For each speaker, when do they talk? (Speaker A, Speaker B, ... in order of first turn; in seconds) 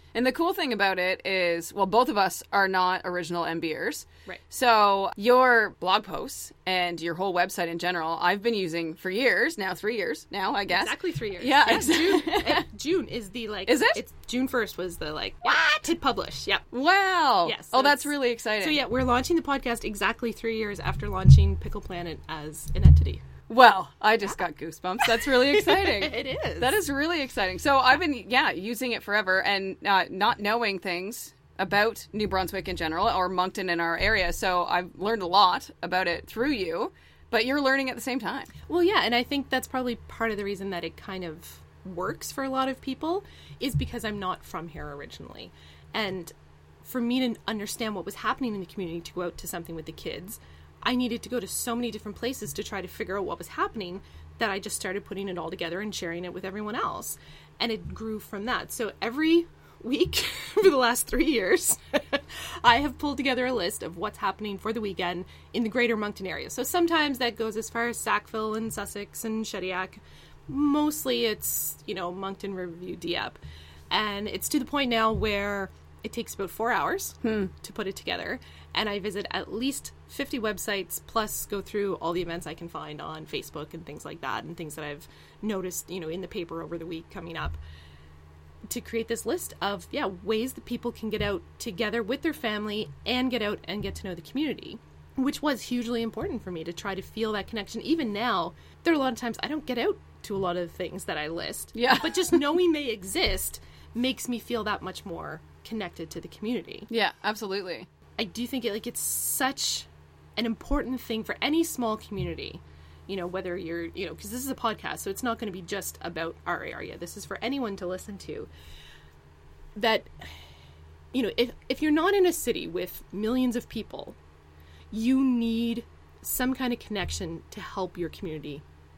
Speaker A: 0.1-12.6, 13.7-14.0, 15.6-15.9, 16.7-18.8, 23.5-38.5, 77.2-77.5, 101.8-102.4, 106.9-107.9
Speaker B: 10.7-16.7, 17.4-23.2, 25.0-26.8, 38.7-73.4, 73.9-87.6, 88.7-106.9, 108.2-118.5, 119.8-120.4, 121.1-124.2, 124.9-128.6